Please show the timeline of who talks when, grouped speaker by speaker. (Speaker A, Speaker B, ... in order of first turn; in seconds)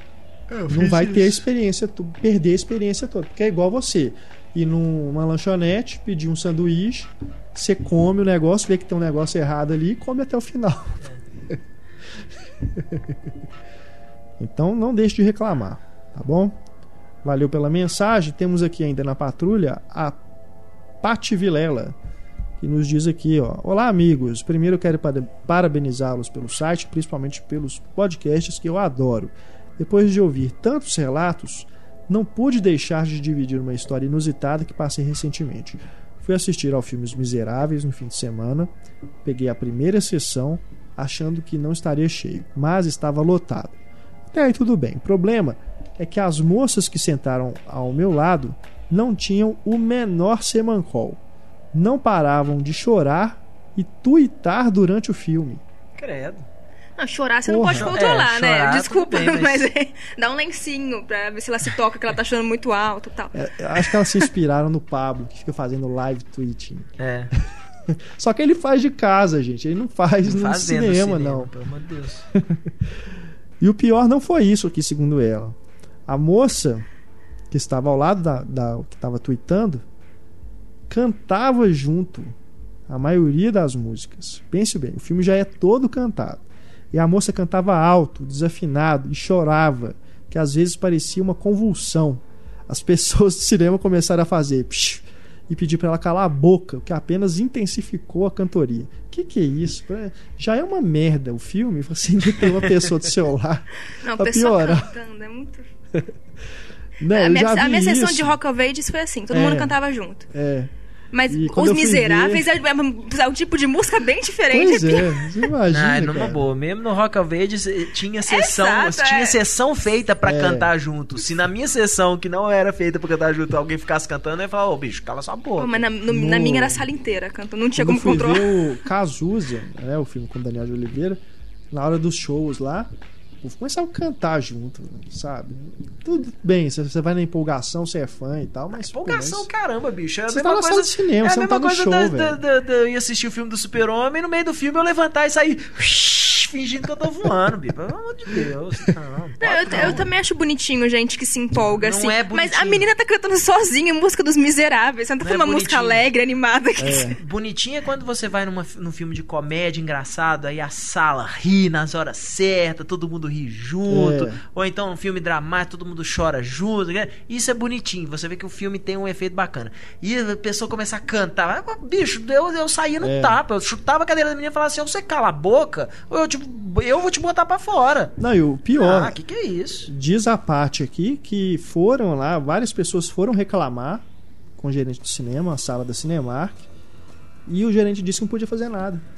Speaker A: 0.5-1.4, 56.0-56.5, 57.7-59.7, 67.0-67.3, 70.2-72.3, 115.7-125.8, 138.7-150.1, 151.7-152.9, 155.2-156.1, 157.2-178.1, 178.7-179.9
Speaker B: 0.7-11.6, 12.6-13.3, 14.4-16.5, 17.2-20.2, 21.0-21.9, 22.6-38.7, 39.2-43.8, 44.3-51.2, 51.7-55.6, 57.5-58.0, 63.3-66.9, 67.9-71.5, 72.3-72.9, 73.6-75.5, 76.1-76.9, 77.5-79.8, 80.9-82.3, 82.9-104.9, 107.0-108.3, 109.3-109.8, 110.3-110.7, 111.3-112.5, 114.5-116.5, 120.2-120.7, 126.1-126.9, 127.8-131.2, 131.7-139.5, 140.3-142.4, 148.3-148.9, 149.7-150.0, 156.8-157.2, 163.9-164.4, 173.0-173.4, 178.2-179.2, 179.8-184.0, 184.6-186.6, 187.4-189.0
Speaker C: 57.0-64.3, 104.0-105.7, 107.1-110.3, 111.1-115.2, 118.2-119.4, 125.6-128.8, 149.4-157.1